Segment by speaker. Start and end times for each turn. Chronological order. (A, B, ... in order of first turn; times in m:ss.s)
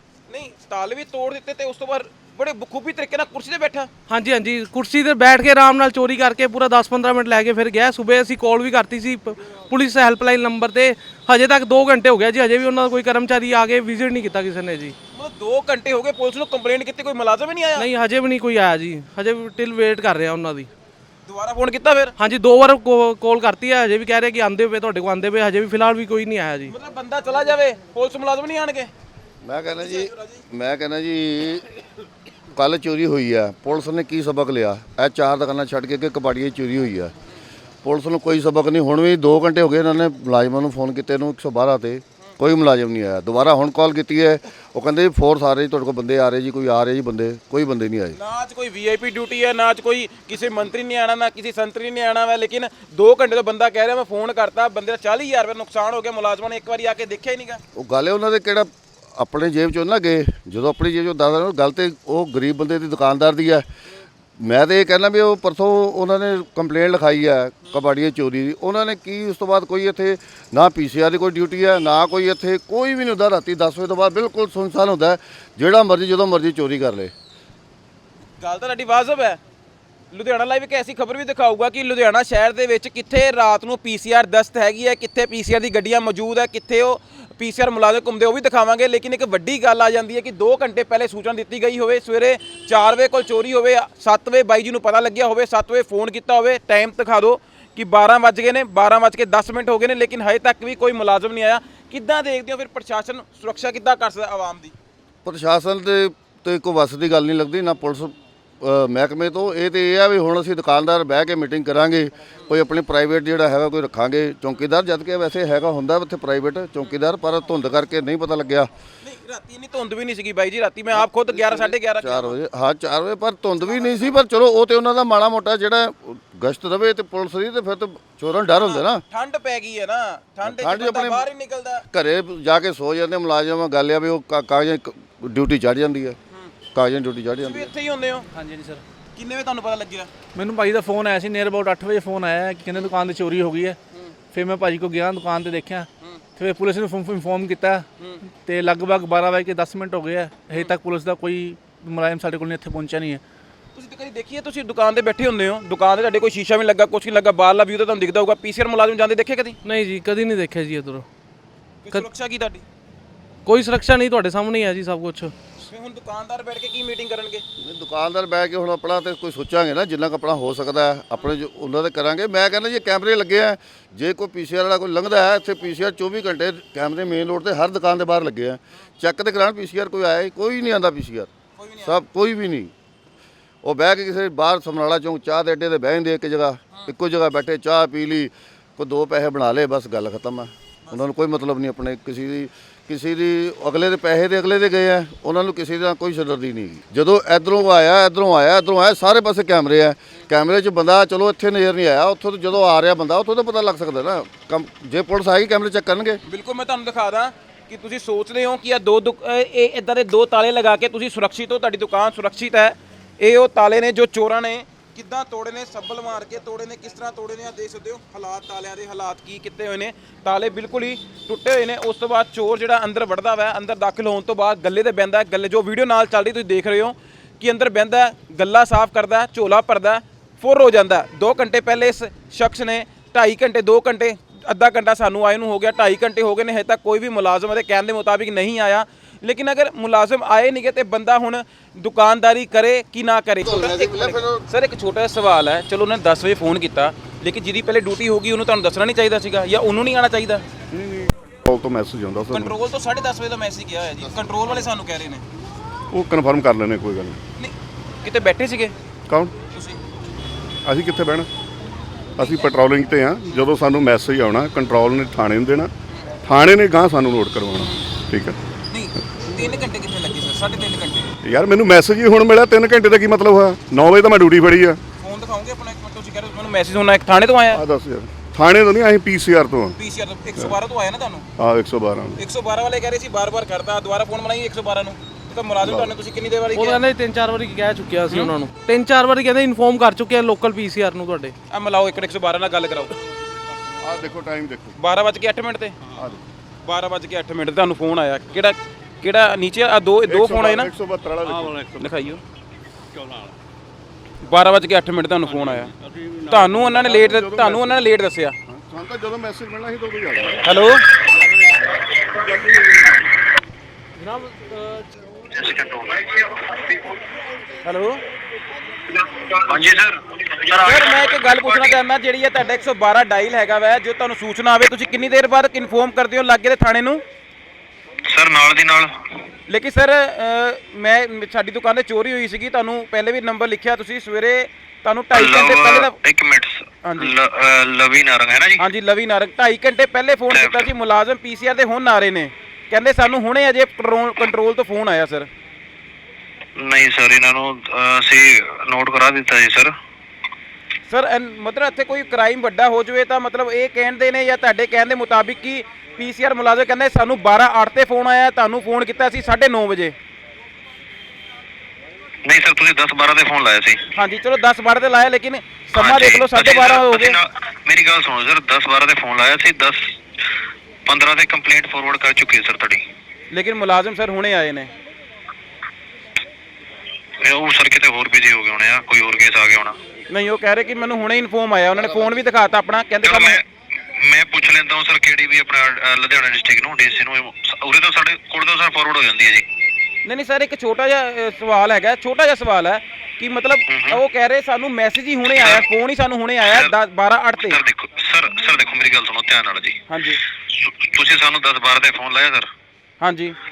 0:00.3-0:03.9 A
0:04.1-0:15.0 B
0:15.1-0:17.9 A
0:17.8-0:20.7 B
0:21.3-0:22.1 A
0:22.2-0:26.7 B
0:26.7-0:28.9 A
0:29.4-0:31.7 C
0:29.8-0:30.4 A
0:32.5-0:37.1 C
0:37.8-0:48.2 C
0:48.1-0:57.6 A
0:57.7-1:03.7 C
1:04.4-1:17.1 C
1:18.4-1:19.4 A
1:20.1-1:44.7 A
1:45.2-1:58.7 C
1:59.0-2:02.4 A
2:01.4-2:09.0 C
2:03.6-2:04.2 A
2:08.5-2:11.8 A
2:10.5-2:11.3 C
2:11.9-2:16.2 C
2:16.8-2:17.7 C
2:17.4-2:18.3 A
2:18.3-2:18.8 D
2:19.2-2:20.1 A
2:20.3-2:23.8 D
2:24.3-2:27.9 D
2:28.4-2:33.2 D
2:33.8-2:39.6 A
2:39.6-2:41.1 B
2:41.8-2:42.6 A
2:43.5-2:45.3 B
2:45.7-2:47.4 A
2:47.6-3:01.3 C
3:01.6-3:02.0 A
3:01.8-3:02.7 C
3:03.6-3:26.2 C
3:10.8-3:11.2 A
3:26.3-4:10.4 A
4:03.4-4:04.4 C
4:10.7-4:12.5 E
4:12.3-4:15.2 A
4:15.9-4:17.2 E
4:17.4-4:18.7 A
4:19.1-4:19.3 E
4:19.5-4:19.8 A
4:20.6-4:21.3 E
4:22.2-4:25.7 E
4:22.2-4:22.4 A
4:26.3-4:28.4 E
4:28.7-4:31.1 A
4:31.2-4:34.8 E
4:35.0-4:37.6 A
4:37.5-4:39.8 E
4:39.8-4:41.3 A
4:41.4-4:42.2 E
4:42.2-4:46.8 A
4:45.6-4:45.9 E
4:46.6-4:51.3 B
4:51.5-4:53.0 A
4:53.8-4:54.8 E
4:54.8-4:55.8 A
4:56.6-5:00.7 A
5:00.1-5:01.9 E
5:01.8-5:02.2 A
5:04.2-5:05.7 A
5:06.3-5:08.4 A
5:06.8-5:07.8 E
5:08.5-5:10.4 E
5:10.4-5:10.8 A
5:12.3-5:12.6 E
5:15.4-5:16.6 F
5:17.6-5:18.0 A
5:19.3-5:21.7 F
5:20.6-5:27.0 A
5:28.1-5:28.9 F
5:29.5-5:36.0 A
5:35.1-5:38.6 F
5:36.8-5:37.1 A
5:38.6-5:45.3 A
5:40.3-5:40.7 F
5:46.6-5:49.7 F
5:50.9-6:00.0 A
6:02.2-6:03.8 F
6:04.0-6:07.2 A
6:05.7-6:10.0 F
6:10.9-6:12.8 F
6:13.3-6:14.7 A
6:17.2-6:19.8 F
6:20.1-6:23.4 A
6:23.0-6:23.4 F
6:24.0-6:29.4 F
6:30.0-6:37.6 A
6:33.7-6:34.0 F
6:35.3-6:35.6 F
6:36.4-6:36.7 F
6:37.4-6:39.8 F
6:39.9-6:40.2 A
6:40.5-6:42.5 F
6:43.0-6:43.4 A